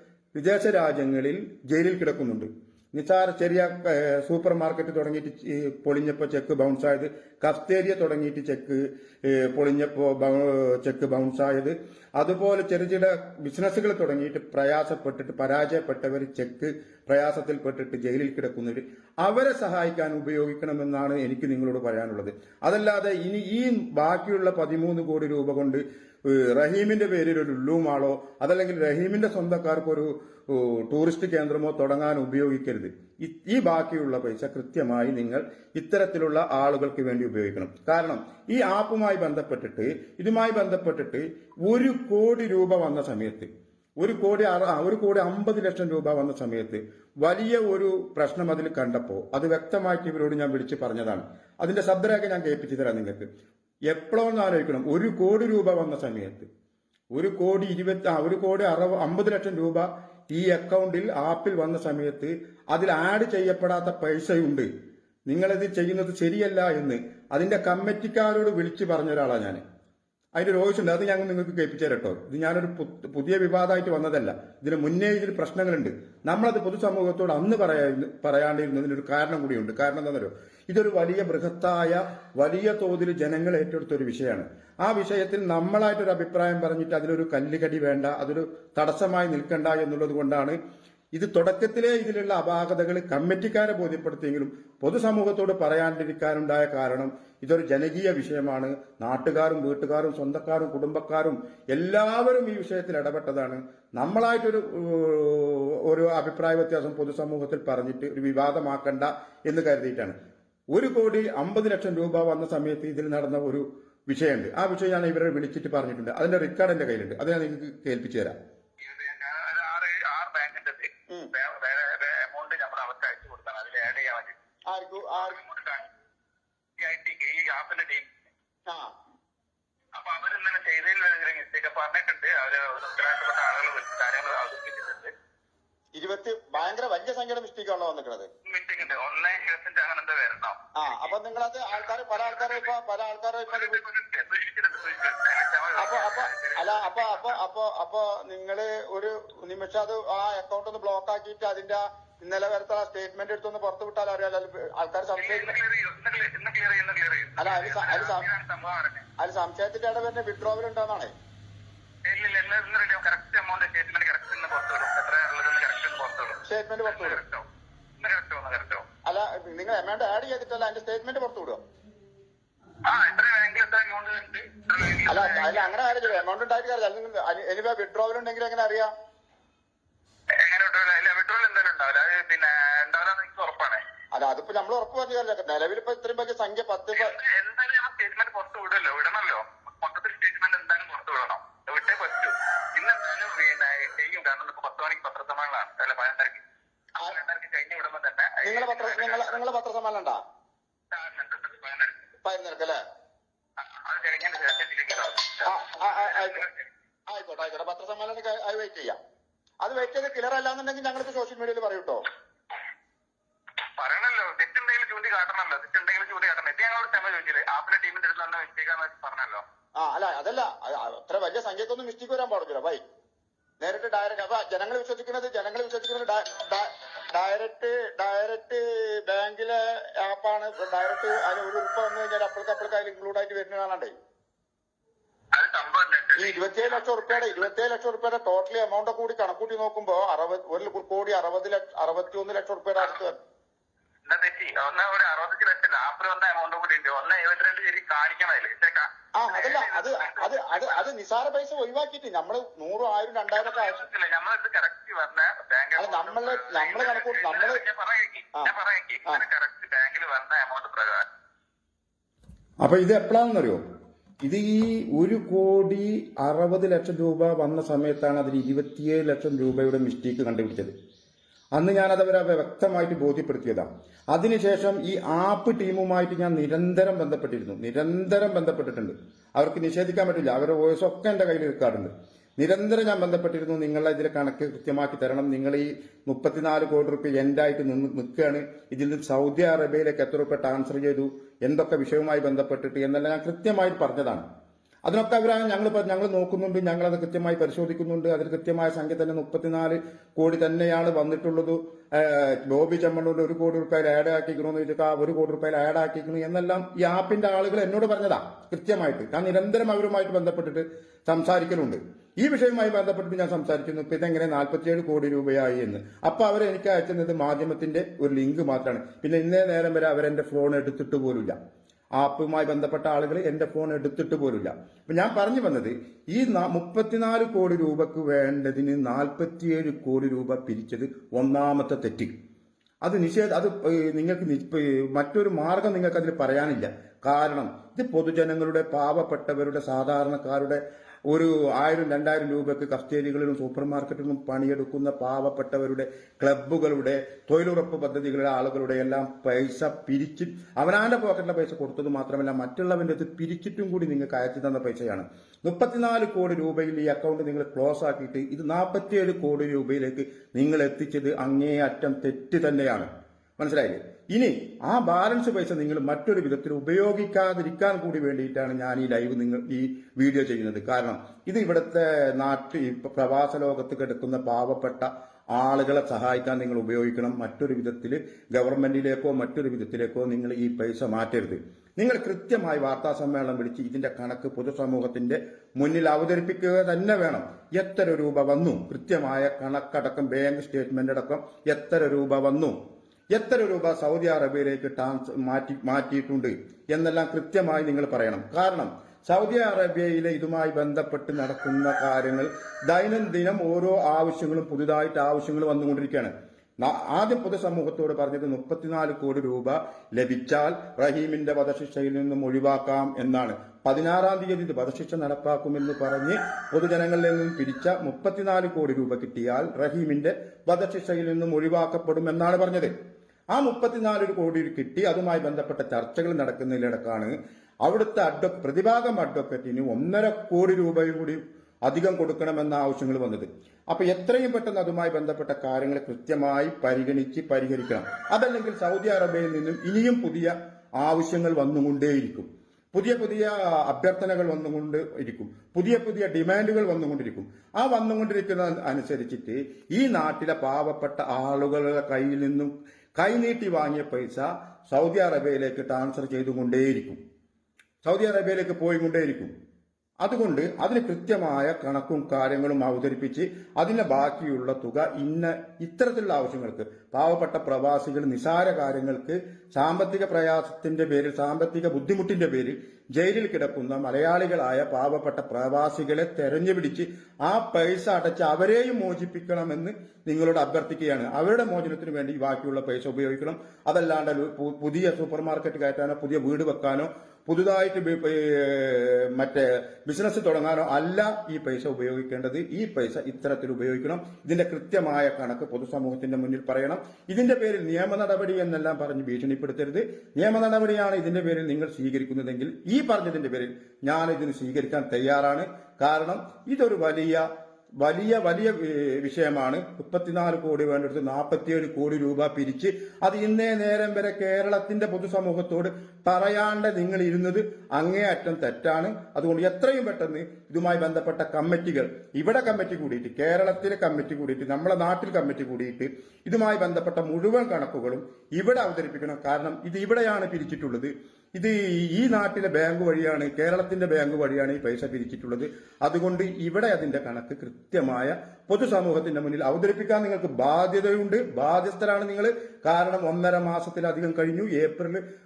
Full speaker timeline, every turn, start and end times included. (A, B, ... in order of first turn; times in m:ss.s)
0:00.3-0:53.3 A
0:53.9-0:56.5 A
0:57.1-1:04.7 A
1:05.3-1:09.6 A
1:10.4-1:30.6 A
1:31.1-1:50.2 A
1:50.7-1:58.4 A
1:58.8-2:04.4 B
2:04.7-2:05.4 C
2:05.1-2:05.9 B
2:06.8-2:08.1 B
2:10.0-2:15.1 B
2:16.0-2:18.3 C
2:18.4-2:21.2 B
2:20.8-2:23.8 C
2:21.7-2:22.8 B
2:23.5-2:27.4 B
2:25.8-2:35.6 C
2:35.2-2:39.1 B
2:37.4-2:38.2 C
2:39.2-2:41.1 C
2:42.1-2:47.5 B
2:46.4-2:47.2 C
2:48.0-2:48.9 B
2:49.1-2:51.6 C
2:52.9-2:56.2 B
2:55.1-2:58.9 C
3:00.4-3:03.8 B
3:04.2-3:07.1 C
3:06.9-3:16.4 B
3:17.0-3:19.5 B
3:18.4-3:20.2 C
3:20.9-3:22.1 B
3:22.2-3:22.8 C
3:23.6-3:26.7 B
3:25.5-3:26.4 C
3:27.1-3:29.0 C
3:29.6-3:32.0 C
3:33.8-3:39.4 B
3:39.8-3:42.8 C
3:43.6-3:53.9 C
3:55.4-3:57.5 B
3:56.2-4:03.2 C
4:02.8-4:03.0 B
4:04.1-4:10.9 B
4:09.2-4:13.8 C
4:13.4-4:21.0 B
4:15.8-4:17.6 C
4:22.6-4:23.6 A
4:24.2-4:30.7 A
4:31.6-4:54.2 A
4:54.9-5:21.4 A
5:22.0-5:32.1 A
5:32.8-6:32.6 A
6:33.1-7:02.7 A
7:03.3-7:37.0 A
7:37.8-7:39.3 A
7:40.0-8:27.3 A
8:27.8-9:05.0 A